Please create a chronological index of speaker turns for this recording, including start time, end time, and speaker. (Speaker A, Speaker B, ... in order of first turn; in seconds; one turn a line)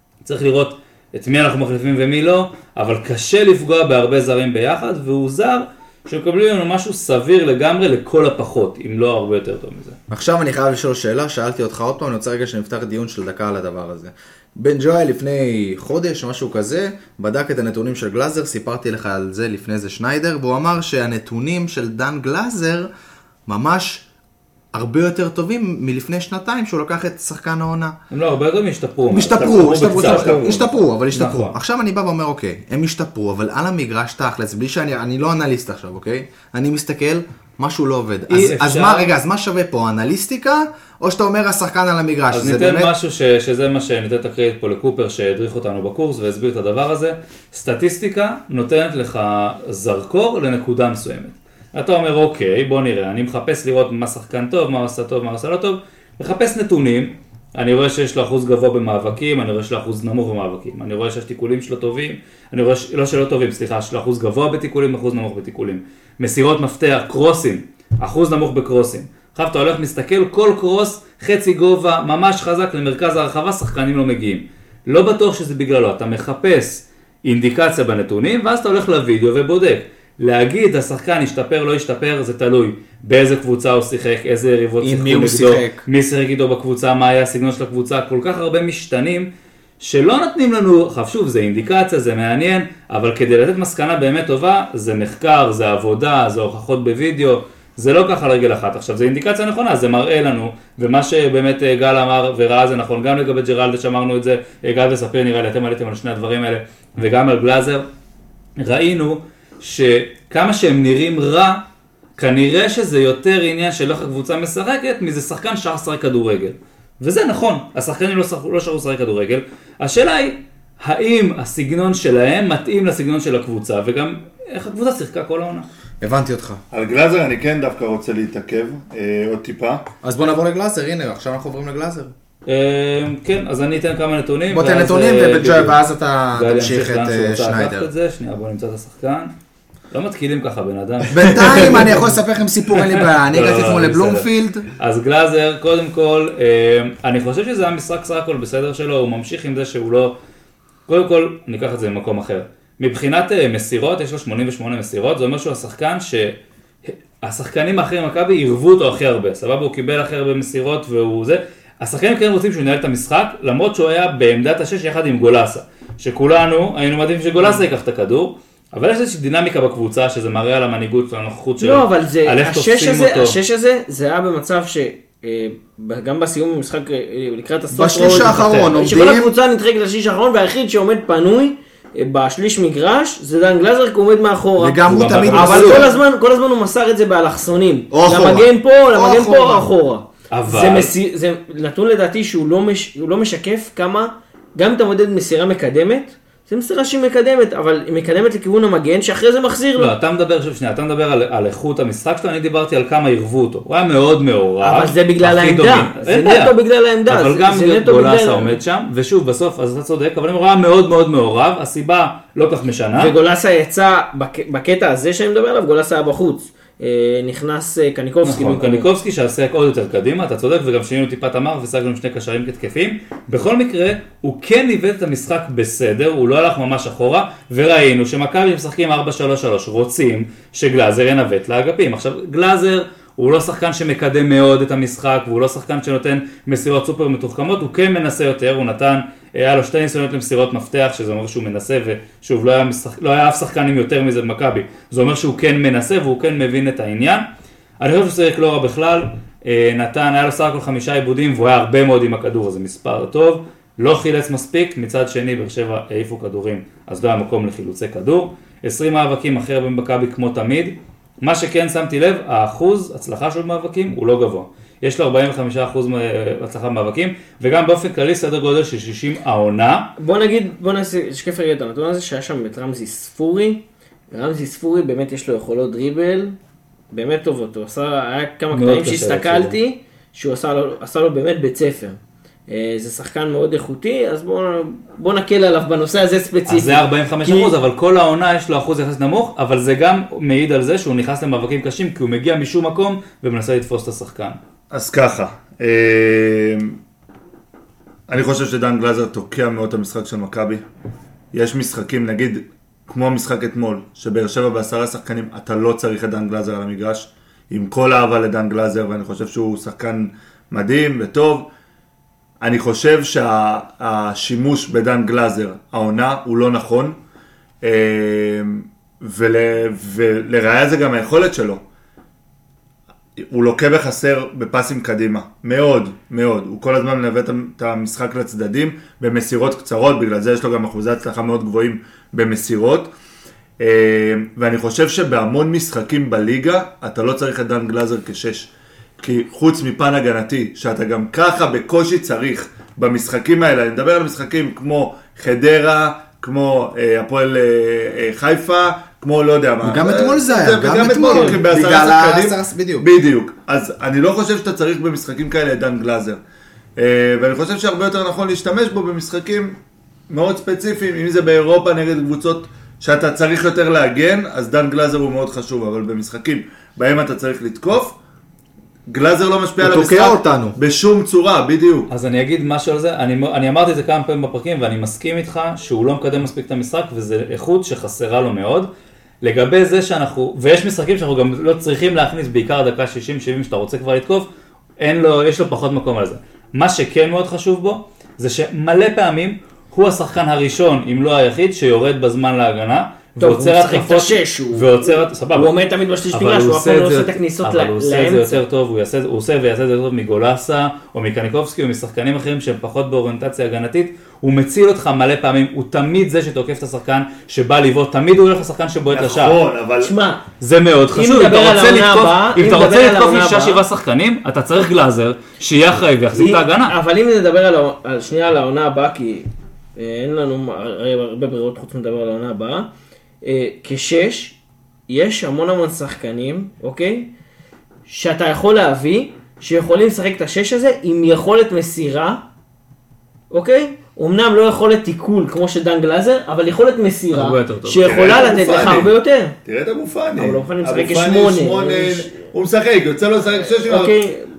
Speaker A: 0.2-10.0
Speaker B: 10.1-22.9
Speaker B: 23.5-24.0
Speaker B: 24.7-27.9
Speaker A: 28.1-31.6
Speaker B: 29.1-42.9
Speaker C: 29.3-30.7
Speaker A: 38.3-39.1
Speaker A: 42.3-89.3
Speaker B: 84.8-85.8
Speaker A: 89.8-107.8
Speaker A: 108.6-111.6
Speaker A: 112.2-125.7
Speaker B: 126.0-126.6
Speaker C: 126.7-129.8
Speaker B: 130.0-132.1
Speaker A: 132.5-135.8
Speaker B: 134.5-137.9
Speaker A: 136.3-139.3
Speaker A: 139.9-142.1
Speaker B: 141.1-144.7
Speaker A: 142.7-150.2
Speaker A: 150.9-173.4
Speaker D: 171.6-199.9
Speaker B: 177.7-179.3
Speaker A: 178.1-178.7
Speaker B: 184.6-185.9
Speaker A: 184.9-185.9
Speaker B: 187.9-189.7
Speaker A: 190.3-190.9
Speaker A: 199.8-206.6
Speaker D: 204.6-208.6
Speaker A: 207.1-213.1
Speaker D: 213.0-218.9
Speaker A: 218.2-247.2
Speaker A: 247.8-269.9
Speaker D: 270.0-276.4
Speaker D: 276.9-287.5
Speaker A: 278.5-279.6
Speaker A: 286.5-294.4
Speaker C: 294.7-296.8
Speaker C: 298.1-300.6
Speaker C: 301.3-311.5
Speaker C: 312.4-317.0
Speaker C: 317.6-321.6
Speaker C: 323.3-332.9
Speaker C: 333.6-356.2
Speaker B: 349.6-352.9
Speaker D: 351.1-351.4
Speaker C: 356.8-359.6
Speaker C: 360.1-368.0
Speaker C: 368.9-371.9
Speaker B: 369.6-370.6
Speaker A: 371.9-378.7
Speaker A: 379.2-384.3
Speaker A: 384.8-395.5
Speaker D: 393.2-398.4
Speaker A: 396.1-409.4
Speaker C: 408.9-409.9
Speaker D: 409.8-410.2
Speaker A: 410.4-416.7
Speaker D: 410.9-413.6
Speaker D: 416.1-422.7
Speaker D: 423.2-424.4
Speaker D: 424.9-427.1
Speaker D: 427.9-432.2
Speaker D: 433.3-439.4
Speaker A: 437.1-437.9
Speaker C: 437.8-438.9
Speaker C: 439.4-443.9
Speaker D: 440.2-442.1
Speaker D: 443.5-444.3